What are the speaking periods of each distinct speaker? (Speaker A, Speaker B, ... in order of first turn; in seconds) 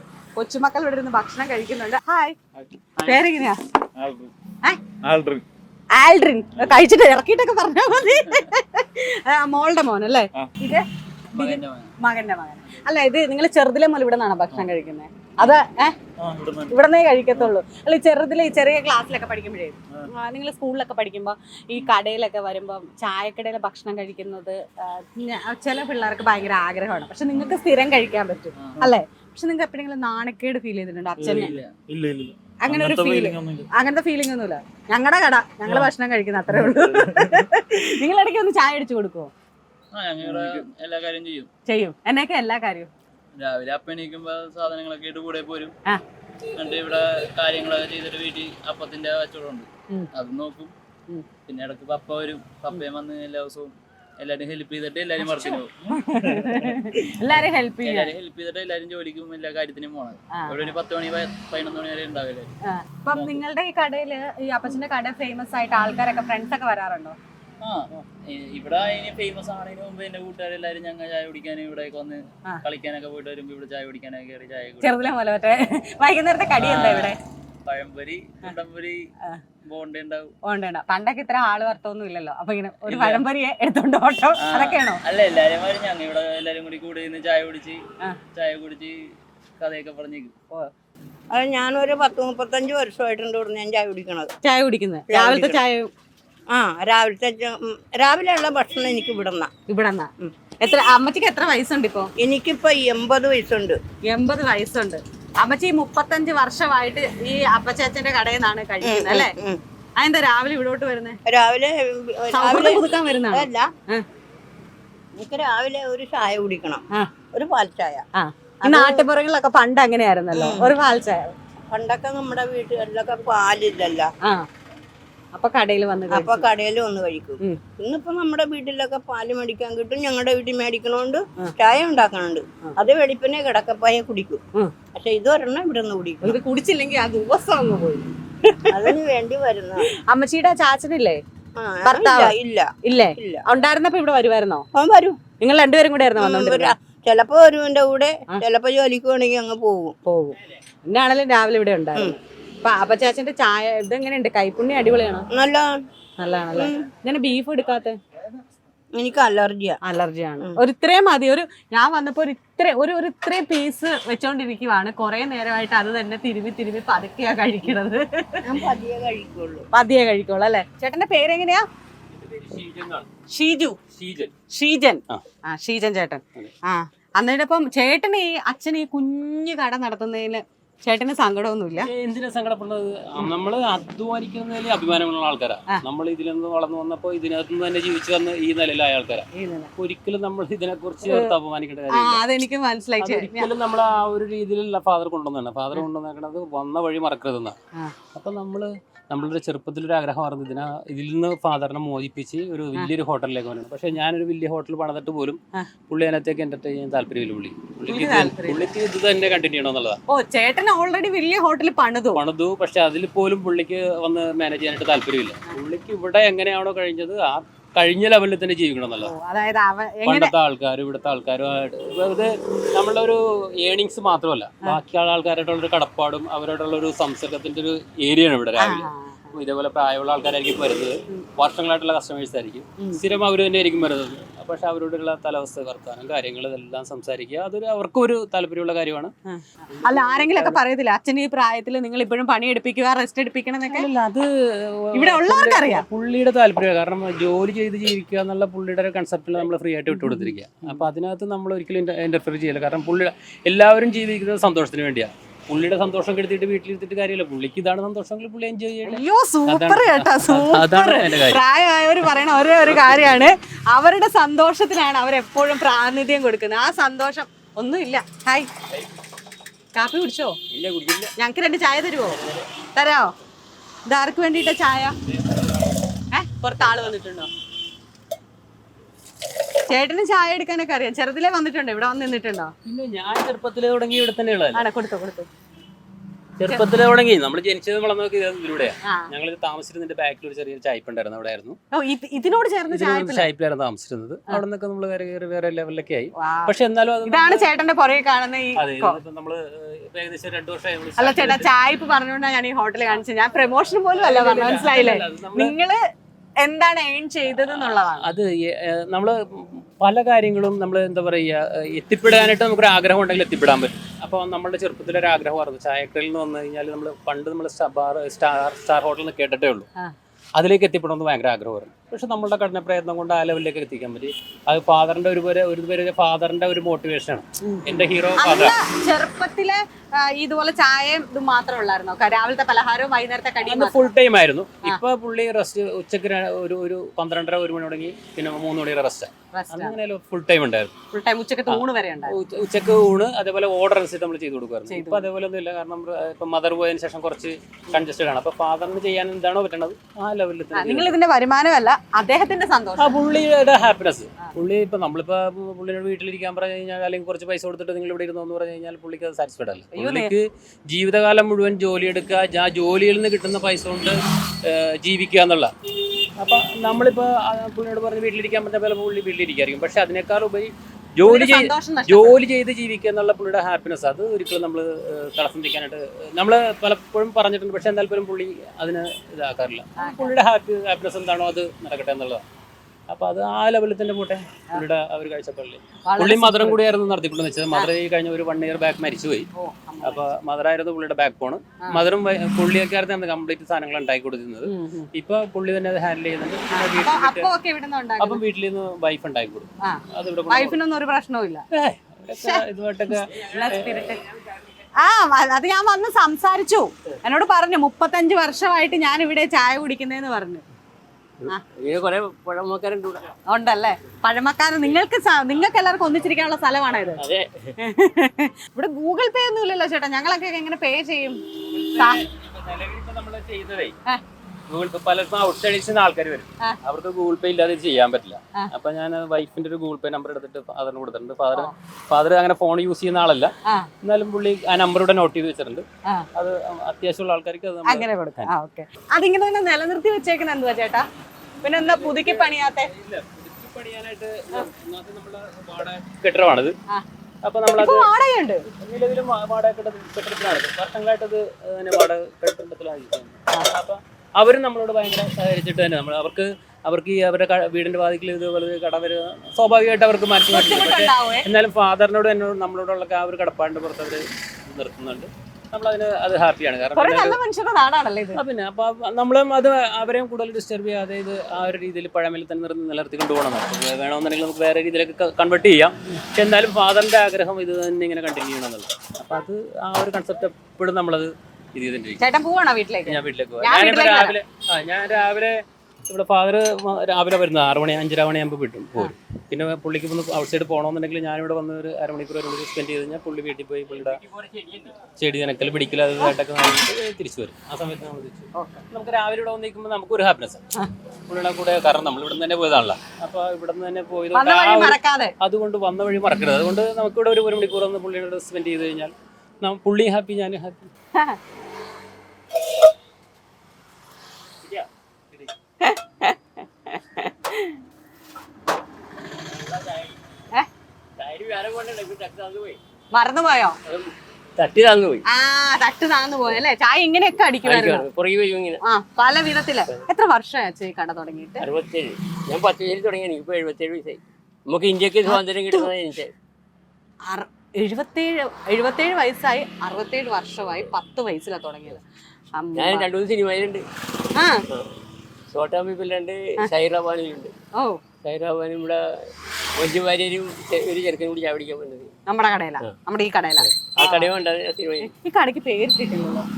Speaker A: 0.3-2.4, 3.0-3.6, 5.9-15.9, 16.7-31.6, 32.6-39.3, 41.7-42.9, 55.2-58.1, 60.3-60.7, 62.6-67.2, 74.8-77.2, 80.4-85.0, 94.4-95.9, 99.7-102.1, 104.0-109.3, 110.0-111.2, 112.3-114.0, 118.1-121.3, 125.3-126.5, 136.2-138.9, 140.1-141.2, 141.8-144.7, 145.4-146.7, 150.0-155.3, 156.2-158.0, 159.8-168.5, 169.7-171.7, 173.3-173.8, 174.5-181.9, 189.3-189.7, 191.0-191.3, 191.9-193.5, 207.9-208.7, 210.1-212.2, 219.0-220.3, 228.6-229.4, 239.3-243.9, 244.9-245.8, 249.9-250.8, 258.8-268.5, 269.7-270.4, 271.2-272.2, 272.7-273.1, 273.9-274.9, 276.1-277.3, 279.7-282.5, 284.5-285.3, 288.8-289.1, 291.7-293.3, 296.2-299.0, 301.0-305.8, 306.4-308.1, 327.4-333.9, 339.3-339.8, 340.9-342.1, 344.7-345.1, 350.5-353.0, 359.7-360.1, 371.0-372.2, 379.8-380.1, 385.8-386.6, 389.3-390.0, 394.4-394.9, 396.5-398.2, 399.6-401.4, 402.1-404.0, 404.7-410.4, 413.3-417.0, 417.6-421.2, 421.7-422.0, 433.4-433.7, 437.6-440.8, 441.4-442.7, 447.5-448.4, 460.3-461.3, 466.7-468.2, 482.0-484.2, 498.3-498.6, 504.1-505.1, 515.6-517.6, 522.9-523.6, 525.1-527.9, 528.6-531.5, 535.0-535.7, 537.1-541.8, 542.4-542.9, 544.1-544.4, 552.1-554.1, 554.8-556.2
Speaker B: 2.6-3.3, 4.0-4.3, 5.0-5.4, 11.3-11.9, 16.2-16.8, 28.6-28.9, 31.2-33.7, 39.9-41.5, 43.3-45.7, 46.5-50.7, 51.5-56.8, 57.8-62.5, 63.1-63.4, 67.6-75.0, 76.6-79.1, 79.6-80.3, 82.8-83.2, 84.4-90.3
Speaker C: 40.3-40.6, 172.1-173.1, 173.9-174.3, 181.8-189.2, 189.8-192.2, 193.0-197.5, 198.1-205.4, 205.9-210.0, 212.1-219.1, 220.1-239.1, 239.7-240.6, 243.7-261.4, 282.6-284.6, 286.4-291.6, 292.7-297.5, 298.6-301.5, 303.9-305.5, 307.3-319.7, 320.4-328.6, 333.4-340.7, 341.5-351.0, 352.8-365.5, 366.2-382.2, 382.9-389.3, 389.8-397.3, 398.0-400.6, 401.5-403.1, 421.4-423.7, 424.5-433.3, 433.8-438.3, 441.4-446.5, 447.2-447.9, 448.5-467.2, 468.1-482.0, 482.9-494.0, 495.0-500.4, 501.1-510.7
Speaker D: 91.3-94.3, 95.1-95.6, 96.5-99.5, 102.2-103.8, 108.8-109.6, 111.2-113.7, 115.1-118.0, 118.6-119.0, 120.3-120.7, 121.7-124.1, 126.1-134.4, 134.9-136.4, 138.7-139.8, 141.6-143.4, 144.7-145.2, 146.2-149.9, 155.3-155.8, 156.5-156.9, 158.9-159.8, 168.4-169.7
Speaker E: 270.5-271.1, 272.1-272.4, 276.6-276.9, 403.4-404.0, 411.2-413.1, 417.0-417.5, 493.7-494.8, 519.2-520.0, 521.0-522.6, 523.6-525.0, 527.4-528.6, 531.4-536.1, 542.5-543.6, 545.3-547.3, 548.0-548.8, 549.6-551.9, 553.5-554.9